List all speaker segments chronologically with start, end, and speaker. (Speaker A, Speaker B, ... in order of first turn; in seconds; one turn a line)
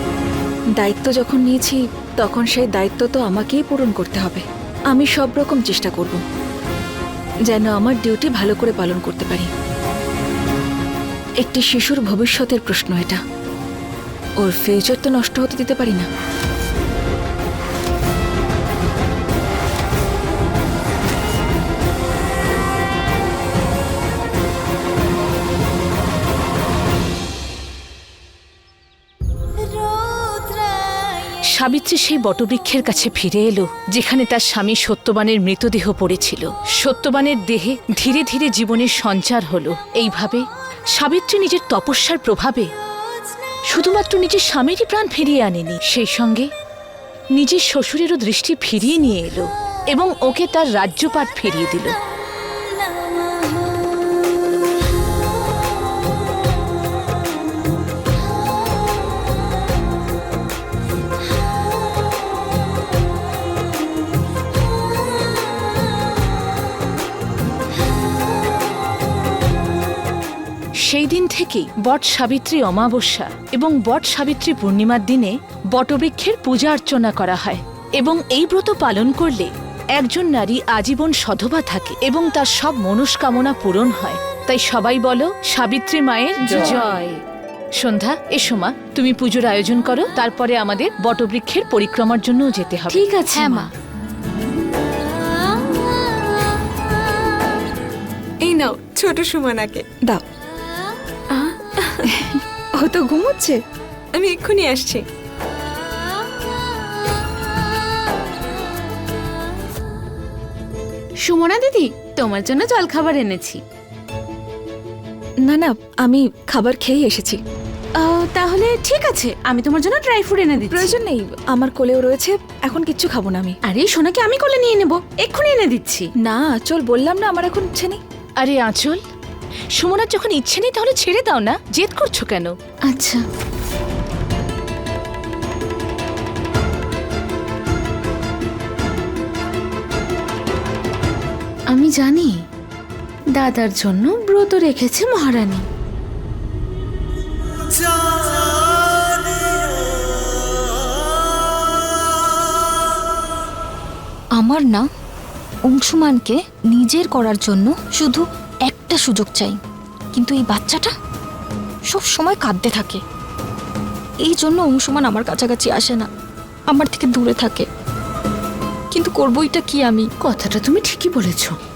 Speaker A: 0.8-6.2
Speaker A: 7.5-9.5
Speaker A: 11.4-13.2
Speaker A: 14.4-16.1
Speaker B: 31.5-40.4
Speaker B: 41.0-42.7
Speaker B: 43.7-46.5
Speaker B: 47.4-52.0
Speaker B: 70.9-87.2
Speaker C: 86.5-86.8
Speaker B: 87.8-93.7
Speaker D: 92.9-93.4
Speaker D: 98.4-99.8
Speaker D: 101.3-101.8
Speaker A: 102.2-103.6
Speaker D: 104.1-105.0
Speaker C: 111.2-113.6
Speaker A: 115.5-117.4
Speaker C: 118.0-120.9
Speaker A: 120.7-123.5
Speaker C: 123.7-126.1
Speaker A: 126.2-128.0
Speaker B: 128.4-129.0
Speaker B: 129.8-132.5
Speaker C: 132.9-133.2
Speaker C: 141.7-142.4
Speaker C: 143.3-145.6
Speaker E: 154.3-154.8
Speaker E: 155.7-159.6
Speaker E: 160.1-160.9
Speaker E: 161.9-163.0
Speaker E: 164.2-166.1
Speaker E: 166.7-167.7
Speaker E: 168.9-170.1
Speaker C: 170.2-171.5